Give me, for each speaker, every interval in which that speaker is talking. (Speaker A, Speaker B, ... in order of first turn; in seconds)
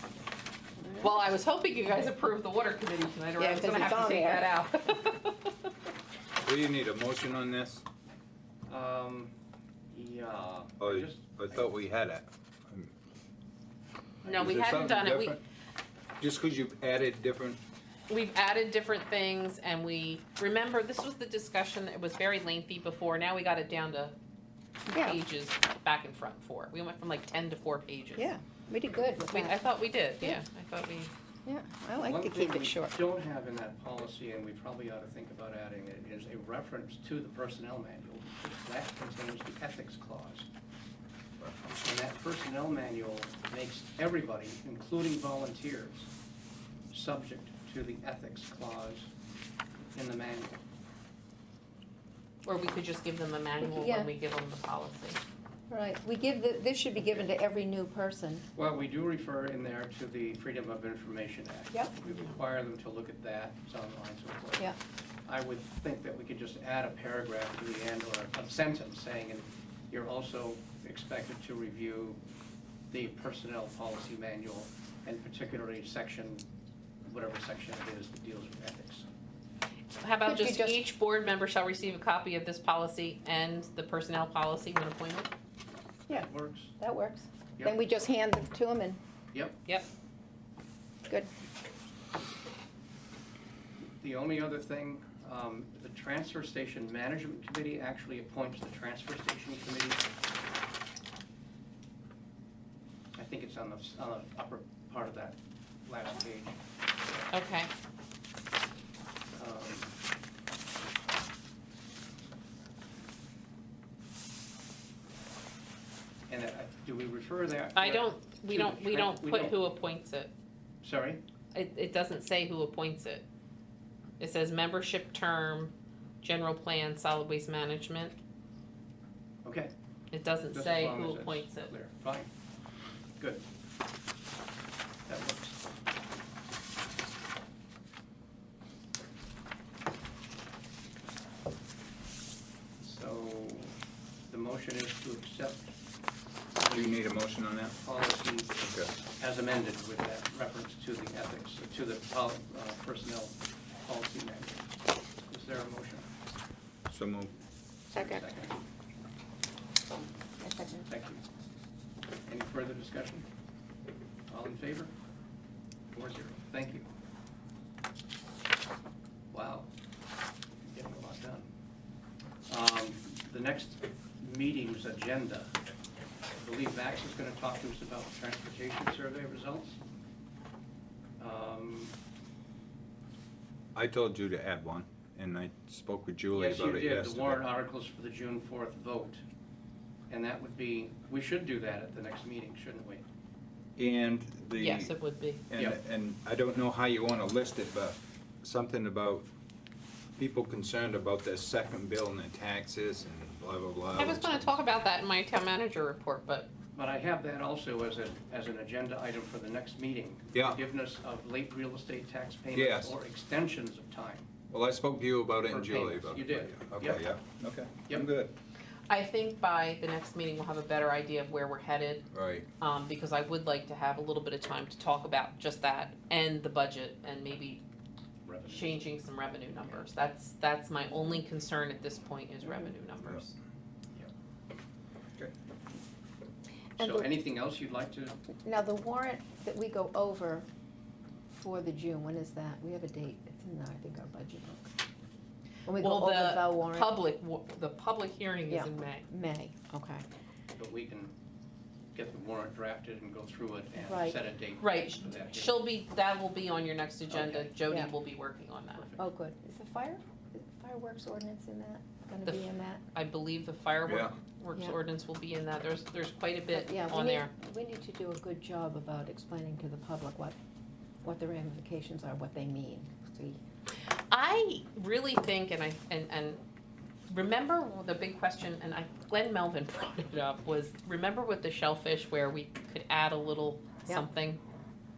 Speaker A: 0.8-1.2, 3.4-4.5, 24.9-25.2, 28.2-29.6, 31.4-33.0, 53.6-54.1, 55.7-58.5, 80.2-80.8, 86.1-89.0, 157.9-158.2, 160.4-160.9, 236.8-237.1, 238.4-240.5, 241.3-244.7, 245.7-247.0, 248.5-250.0, 253.8-254.2, 259.0-262.8, 266.5-270.4, 271.0-273.4
Speaker B: 1.0-5.7, 14.2-15.4, 18.1-24.1, 24.9-28.3, 29.2-31.1, 52.4-55.2, 80.0-85.3, 107.3-107.7, 117.8-120.3, 121.5-123.2, 124.2-128.2, 130.1-131.7, 194.6-195.4, 203.9-206.5, 218.9-222.1, 222.6-227.6, 228.5-233.3, 245.8-249.1, 254.6-258.9, 262.2-267.3, 274.1-276.4, 277.1-284.4
Speaker C: 6.4-7.8, 10.8-12.9, 14.2-15.4, 16.2-17.6, 146.7-147.8, 148.6-148.9, 156.9-157.3, 183.8-187.4, 193.8-199.3, 200.2-204.6, 210.3-210.6, 212.5-212.9, 214.5-218.3, 222.1-222.5, 263.9-264.1
Speaker D: 8.7-9.3, 9.9-11.6, 31.9-40.5, 41.6-46.1, 46.9-49.1, 49.9-50.5, 58.5-64.7, 65.2-72.2, 72.9-76.5, 77.1-79.1, 86.1-86.8, 89.3-89.6, 93.8-100.0, 103.2-107.2, 109.3-109.9, 116.3-119.6, 120.8-121.2, 129.4-129.7, 130.5-132.3, 133.2-133.4, 135.1-135.6, 142.8-143.8, 144.3-145.8, 146.7-147.1, 147.8-154.7, 155.3-156.1, 157.9-158.6, 160.9-161.2, 162.2-163.3, 164.3-164.9, 165.9-166.9, 169.3-169.7, 170.7-171.5, 172.5-175.5, 176.4-179.8, 181.2-181.9, 186.3-189.2, 190.1-193.0, 206.8-214.3, 215.5-217.1, 228.2-228.9, 236.8-238.2, 250.6-251.1, 251.9-255.6, 257.1-257.5, 258.8-259.1